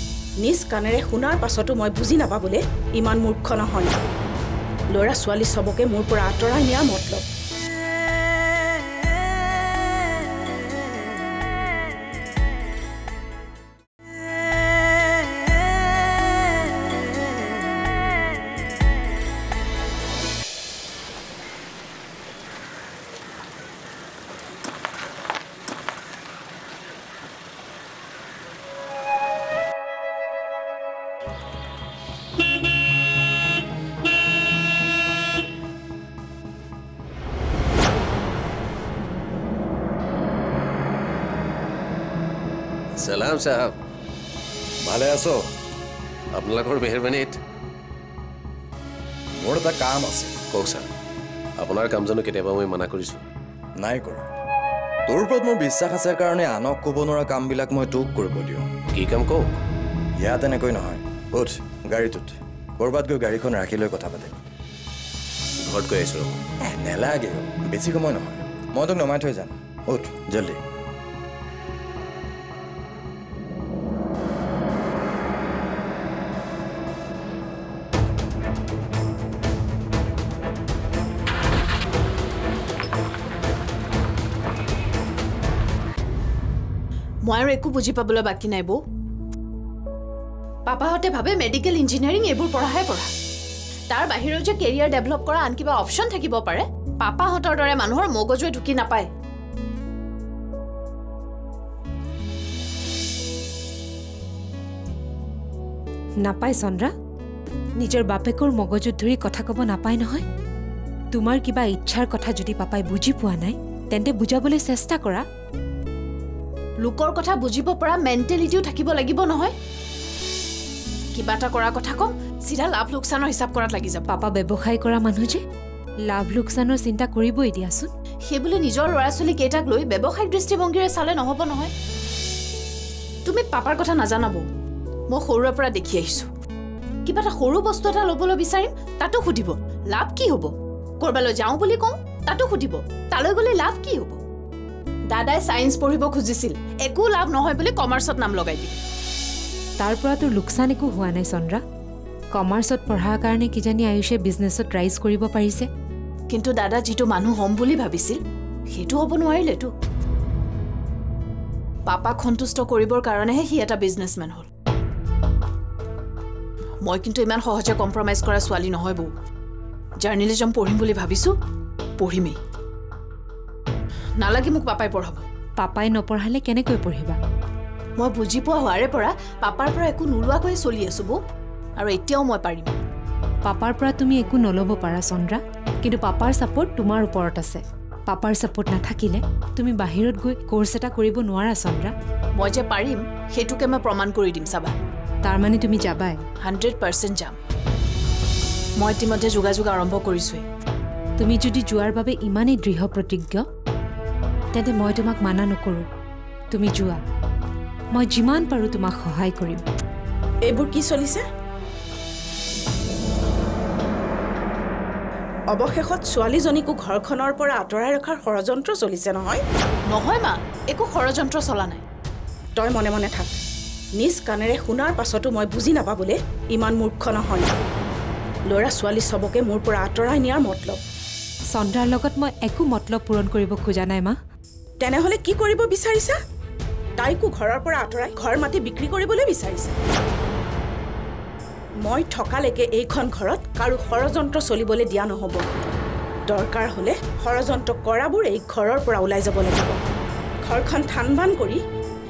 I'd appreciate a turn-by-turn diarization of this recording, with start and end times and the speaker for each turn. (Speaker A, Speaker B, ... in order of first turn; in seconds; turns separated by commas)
Speaker A: 0.4-3.9, Speaker A: 4.9-7.2, Speaker B: 43.0-43.7, Speaker C: 44.8-45.4, Speaker B: 46.3-47.4, Speaker C: 49.4-50.4, Speaker B: 50.5-50.9, Speaker B: 51.6-53.2, Speaker C: 53.8-54.3, Speaker C: 55.1-58.7, Speaker B: 58.9-59.5, Speaker C: 60.2-64.4, Speaker B: 65.6-66.3, Speaker C: 66.6-70.6, Speaker D: 87.3-88.8, Speaker D: 90.7-93.1, Speaker D: 93.9-99.1, Speaker E: 106.2-106.9, Speaker E: 107.8-110.2, Speaker E: 111.1-115.2, Speaker D: 116.8-119.5, Speaker D: 121.2-124.0, Speaker E: 124.1-125.4, Speaker E: 126.1-127.9, Speaker D: 128.3-131.7, Speaker D: 133.2-134.4, Speaker D: 135.1-136.3, Speaker D: 137.1-144.2, Speaker D: 145.1-148.8, Speaker E: 149.8-151.6, Speaker E: 152.3-155.7, Speaker D: 156.3-158.2, Speaker D: 158.7-159.7, Speaker D: 161.9-164.5, Speaker D: 166.8-169.1, Speaker D: 170.0-171.3, Speaker D: 172.0-172.3, Speaker D: 174.2-175.2, Speaker E: 175.6-177.2, Speaker D: 178.0-181.2, Speaker D: 181.8-182.7, Speaker E: 183.4-191.9, Speaker D: 192.4-194.7, Speaker E: 195.2-196.2, Speaker D: 196.4-197.3, Speaker D: 198.8-200.4, Speaker E: 201.2-203.4, Speaker E: 204.5-205.8, Speaker E: 206.5-207.0, Speaker E: 207.9-209.6, Speaker A: 210.4-211.2, Speaker A: 215.5-219.4, Speaker D: 219.9-221.8, Speaker A: 222.6-223.3, Speaker A: 223.9-227.5, Speaker A: 228.5-230.8, Speaker E: 231.5-234.2, Speaker A: 234.8-236.2, Speaker A: 237.0-239.8, Speaker A: 241.8-245.4, Speaker A: 246.3-249.8, Speaker A: 250.4-251.6